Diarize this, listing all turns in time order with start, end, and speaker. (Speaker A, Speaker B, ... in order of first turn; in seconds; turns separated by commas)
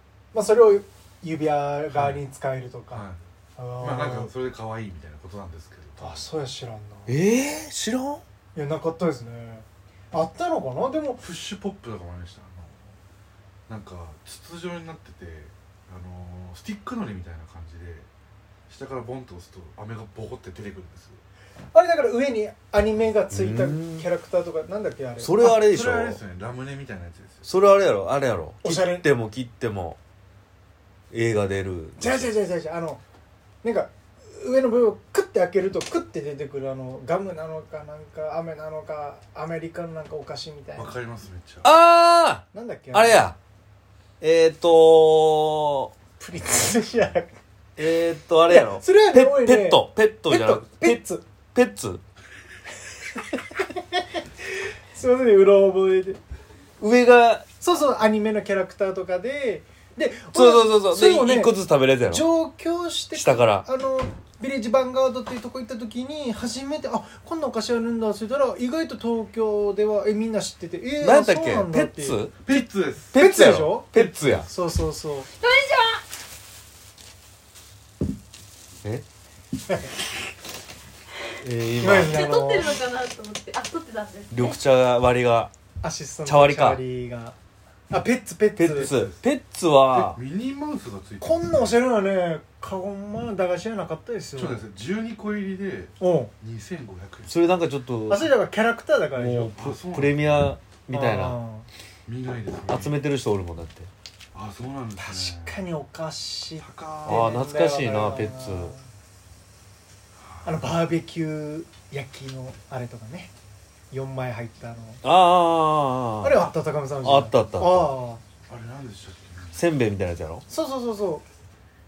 Speaker A: 0.3-3.0, Speaker B: 1.9-2.2, Speaker B: 2.9-3.2, Speaker A: 3.5-4.3, Speaker B: 3.8-6.2, Speaker A: 6.0-7.2, Speaker C: 7.1-8.2, Speaker A: 8.5-11.2, Speaker B: 11.2-12.9, Speaker B: 13.7-18.1, Speaker B: 18.7-21.2, Speaker A: 21.7-25.5, Speaker C: 23.3-24.1, Speaker C: 25.2-26.2, Speaker B: 25.4-27.5, Speaker C: 27.4-30.0, Speaker A: 28.6-29.1, Speaker C: 31.1-32.3, Speaker A: 32.0-33.0, Speaker A: 33.6-40.9, Speaker B: 40.8-41.7, Speaker C: 41.6-43.4, Speaker A: 42.5-43.2, Speaker C: 44.2-45.9, Speaker A: 46.2-47.4, Speaker C: 47.8-51.0, Speaker A: 48.5-51.2, Speaker C: 51.5-52.0, Speaker A: 53.1-54.2, Speaker A: 54.9-56.2, Speaker C: 56.8-57.5, Speaker A: 57.6-61.5, Speaker C: 60.3-62.2, Speaker A: 62.1-75.3, Speaker C: 63.1-63.7, Speaker C: 71.0-72.4, Speaker B: 72.4-73.2, Speaker C: 73.1-74.5, Speaker D: 75.3-76.0, Speaker C: 81.4-82.3, Speaker A: 81.8-82.8, Speaker D: 82.0-84.5, Speaker C: 84.3-85.5, Speaker A: 85.8-87.3, Speaker C: 86.2-86.8, Speaker A: 87.9-88.9, Speaker C: 88.5-90.2, Speaker B: 88.8-89.2, Speaker B: 89.9-91.8, Speaker A: 91.2-94.6, Speaker B: 94.3-97.4, Speaker A: 96.0-96.3, Speaker C: 97.3-98.3, Speaker A: 98.1-99.5, Speaker C: 99.2-101.4, Speaker B: 99.5-100.6, Speaker A: 100.9-101.7, Speaker B: 102.0-103.0, Speaker C: 102.7-103.9, Speaker B: 104.3-105.6, Speaker A: 105.0-108.9, Speaker B: 106.6-107.3, Speaker C: 107.0-108.8, Speaker B: 110.2-110.8, Speaker A: 110.4-113.3, Speaker A: 113.9-115.0, Speaker C: 115.0-116.5, Speaker A: 116.2-118.2, Speaker C: 117.0-117.9, Speaker B: 118.5-119.6, Speaker C: 119.5-120.4, Speaker A: 120.5-121.2